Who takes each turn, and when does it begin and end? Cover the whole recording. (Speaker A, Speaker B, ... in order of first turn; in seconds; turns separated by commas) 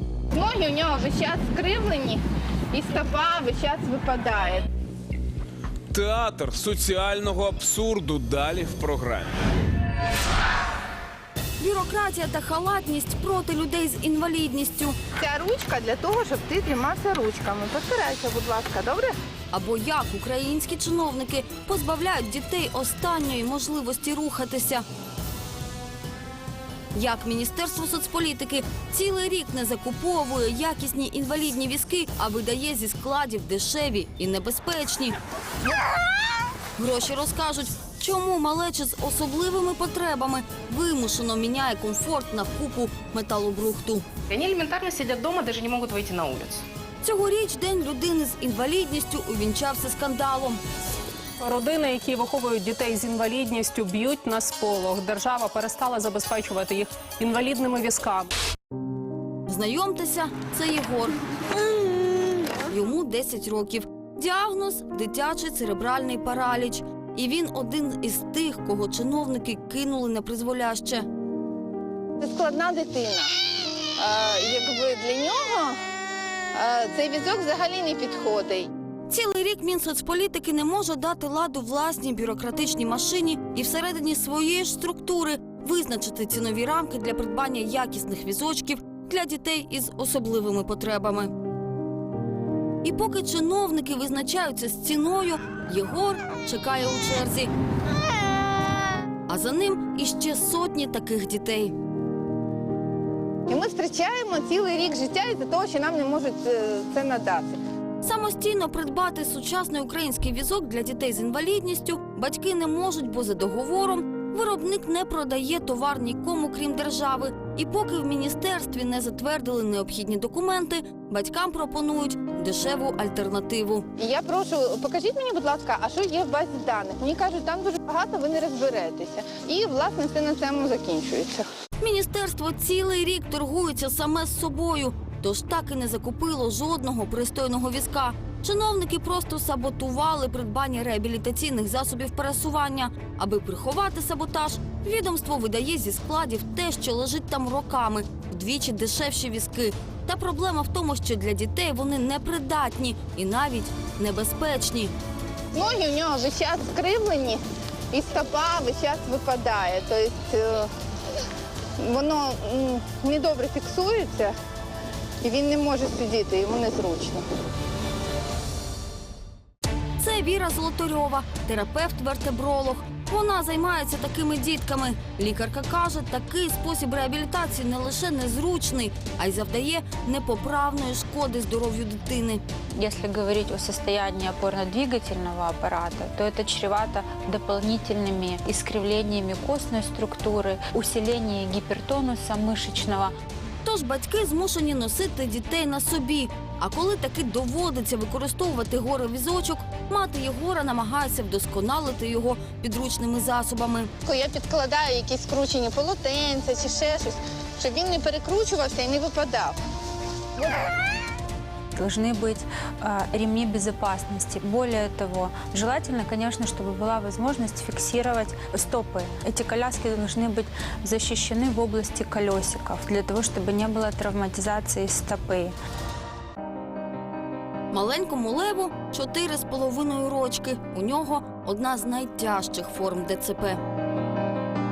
Speaker A: 0.3-2.2, Speaker A: 2.7-4.7, Speaker B: 5.9-9.3, Speaker C: 11.6-15.0, Speaker A: 15.2-19.1, Speaker C: 19.5-24.8, Speaker C: 26.9-35.1, Speaker C: 36.8-44.0, Speaker D: 44.3-46.6, Speaker C: 47.0-50.6, Speaker E: 51.4-58.3, Speaker C: 59.5-61.2, Speaker C: 62.5-71.1, Speaker A: 72.2-73.3, Speaker A: 74.0-75.8, Speaker A: 76.5-78.7, Speaker C: 79.1-91.3, Speaker C: 92.8-97.5, Speaker C: 99.3-101.7, Speaker A: 103.5-107.6, Speaker C: 108.0-123.8, Speaker A: 124.0-131.5, Speaker C: 131.8-154.9, Speaker A: 155.5-160.7, Speaker A: 161.8-164.3, Speaker A: 165.2-167.2, Speaker C: 170.0-182.4, Speaker F: 182.8-193.1, Speaker C: 193.6-203.9, Speaker A: 204.0-209.6, Speaker F: 211.8-225.5, Speaker C: 227.7-233.6